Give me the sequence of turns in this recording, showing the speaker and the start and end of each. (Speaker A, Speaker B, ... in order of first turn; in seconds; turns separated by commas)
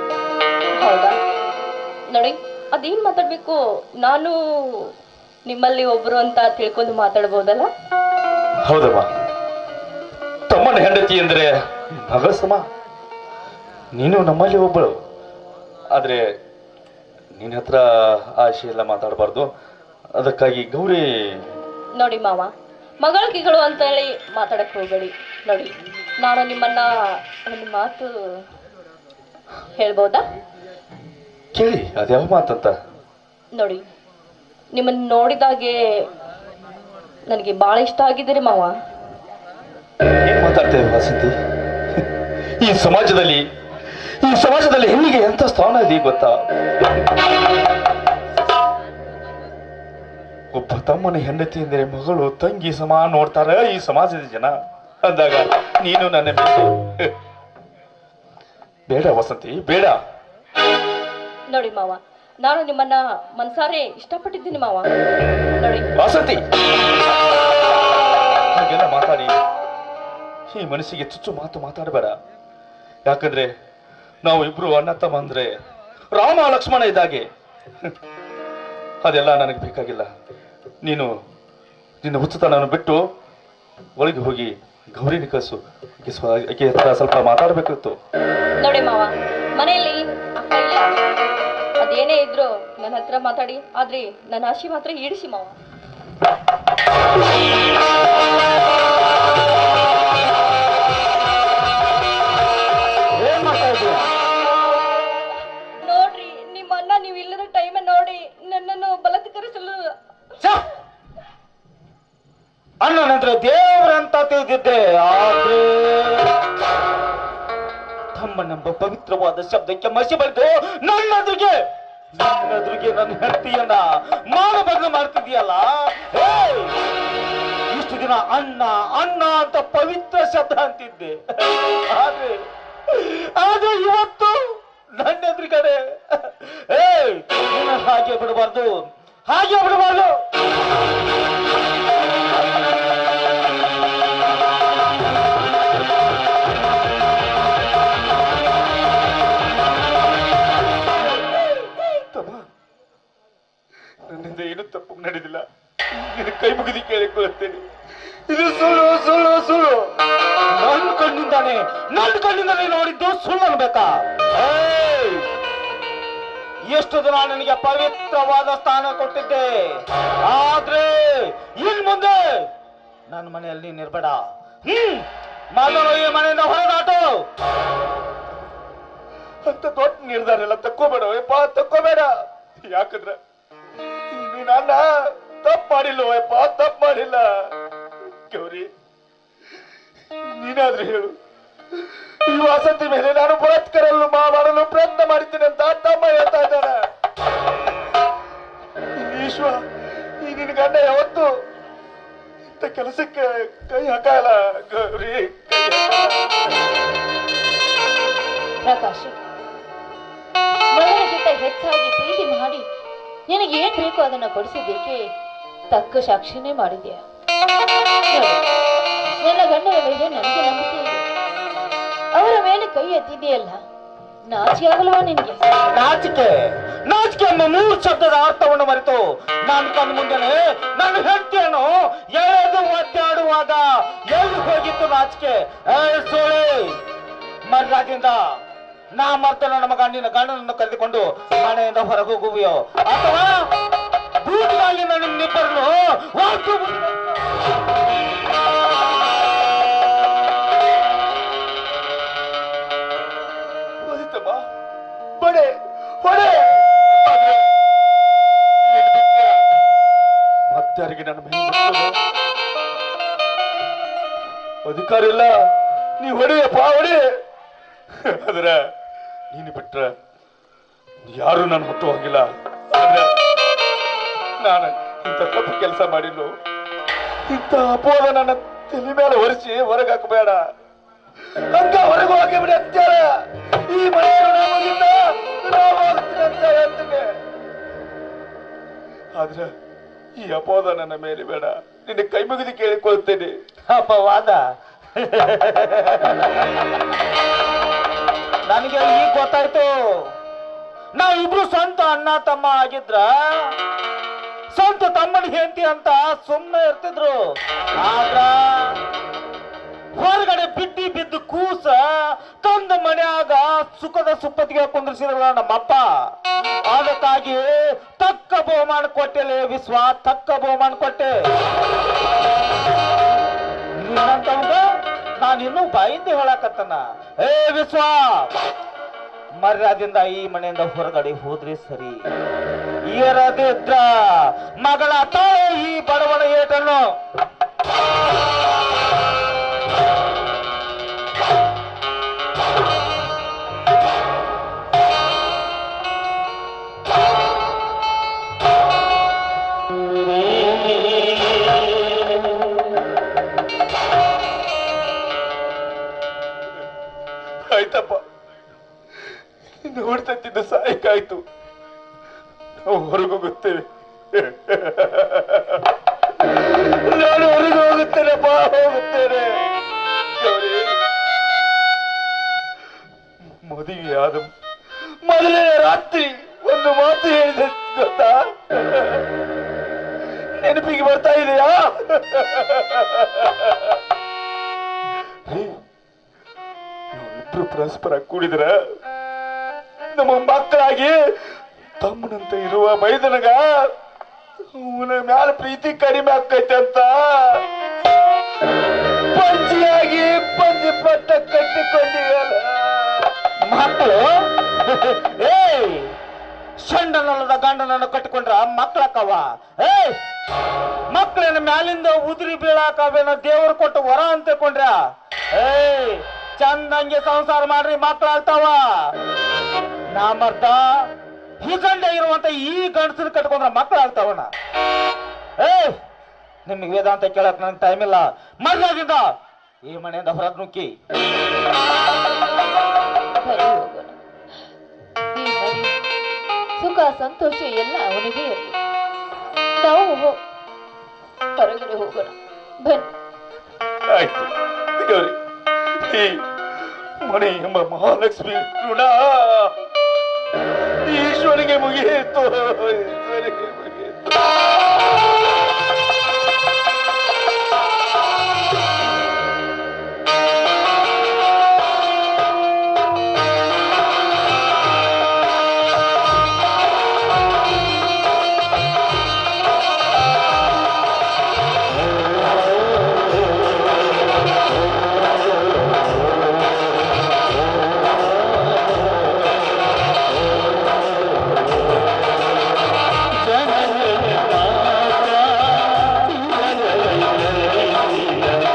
Speaker A: 0.8-1.1, Speaker A: 2.1-4.9, Speaker A: 5.5-7.7, Speaker B: 8.7-9.1, Speaker B: 10.5-12.6, Speaker B: 13.9-14.9, Speaker B: 15.9-16.2, Speaker B: 17.3-19.5, Speaker B: 20.2-21.4, Speaker A: 22.0-26.9, Speaker A: 27.5-28.1, Speaker A: 29.8-30.2, Speaker B: 31.5-32.7, Speaker A: 33.5-33.8, Speaker A: 34.7-35.8, Speaker A: 37.3-38.7, Speaker B: 40.2-41.3, Speaker B: 42.6-43.4, Speaker B: 44.2-46.4, Speaker B: 50.5-54.5, Speaker B: 55.0-57.1, Speaker B: 58.9-60.0, Speaker A: 61.5-64.9, Speaker A: 65.6-65.9, Speaker B: 66.0-66.4, Speaker B: 68.5-69.3, Speaker B: 70.5-72.1, Speaker B: 73.0-73.5, Speaker B: 74.2-75.5, Speaker B: 76.1-77.2, Speaker B: 79.0-80.1, Speaker B: 80.8-81.1, Speaker B: 82.0-83.0, Speaker B: 84.0-87.9, Speaker A: 88.6-90.9, Speaker A: 91.8-95.5, Speaker C: 103.2-104.1, Speaker A: 105.8-109.9, Speaker C: 112.8-116.3, Speaker C: 118.1-121.5, Speaker C: 122.1-126.7, Speaker C: 127.7-132.3, Speaker C: 132.9-138.7, Speaker C: 139.3-140.1, Speaker B: 151.9-152.5, Speaker B: 154.1-155.4, Speaker B: 155.9-157.6, Speaker B: 158.3-159.9, Speaker C: 160.5-165.3, Speaker C: 166.7-172.4, Speaker C: 173.1-177.0, Speaker B: 179.4-182.1, Speaker B: 182.6-183.2, Speaker B: 184.1-187.3, Speaker B: 188.3-188.7, Speaker B: 190.2-191.1, Speaker B: 191.8-196.8, Speaker B: 198.9-199.6, Speaker B: 200.2-201.3, Speaker B: 202.5-206.2, Speaker D: 208.6-209.2, Speaker D: 210.7-212.6, Speaker D: 213.3-215.0, Speaker D: 215.7-217.0, Speaker D: 218.1-218.4, Speaker D: 219.2-221.0, Speaker D: 222.1-223.6, Speaker D: 224.3-225.4, Speaker C: 225.7-236.8, Speaker C: 237.5-238.2, Speaker C: 238.9-243.3, Speaker C: 244.2-247.2, Speaker B: 253.8-254.4, Speaker B: 255.2-257.5, Speaker B: 258.7-259.4, Speaker B: 260.5-262.0, Speaker B: 264.6-265.4, Speaker B: 266.0-267.1, Speaker B: 268.0-268.6, Speaker B: 269.3-269.9, Speaker B: 271.1-273.1, Speaker B: 274.4-276.3, Speaker B: 277.3-280.4, Speaker B: 281.3-283.1, Speaker B: 283.7-287.1, Speaker B: 289.1-289.5, Speaker B: 290.2-293.4, Speaker C: 293.7-294.4, Speaker C: 294.9-296.8, Speaker C: 298.5-299.7, Speaker C: 300.9-303.5, Speaker C: 304.5-307.2, Speaker C: 307.8-308.8, Speaker C: 309.9-315.8, Speaker C: 316.7-321.1, Speaker C: 323.8-324.6, Speaker C: 325.2-328.3, Speaker C: 329.4-332.0, Speaker C: 332.9-336.8, Speaker B: 357.4-358.0, Speaker B: 359.6-361.2, Speaker B: 362.6-365.6, Speaker B: 366.2-369.4, Speaker B: 370.2-370.8, Speaker B: 373.4-374.3, Speaker B: 375.0-379.0, Speaker B: 380.3-383.8, Speaker B: 385.3-385.6, Speaker B: 386.9-388.5, Speaker B: 389.9-391.0, Speaker B: 391.8-393.5, Speaker B: 394.5-397.4, Speaker B: 399.1-403.1, Speaker C: 403.4-405.9, Speaker C: 406.6-410.0, Speaker C: 410.9-414.8, Speaker C: 415.3-418.9, Speaker C: 419.9-420.6, Speaker C: 421.4-424.3, Speaker C: 425.4-425.8, Speaker C: 426.4-429.0, Speaker C: 429.6-430.7, Speaker D: 433.2-434.0, Speaker D: 435.1-435.7, Speaker D: 436.6-438.6, Speaker D: 439.6-440.2, Speaker D: 441.4-442.9, Speaker B: 443.9-445.2, Speaker B: 445.7-446.2, Speaker B: 447.0-449.5, Speaker B: 450.9-454.2, Speaker C: 483.1-488.2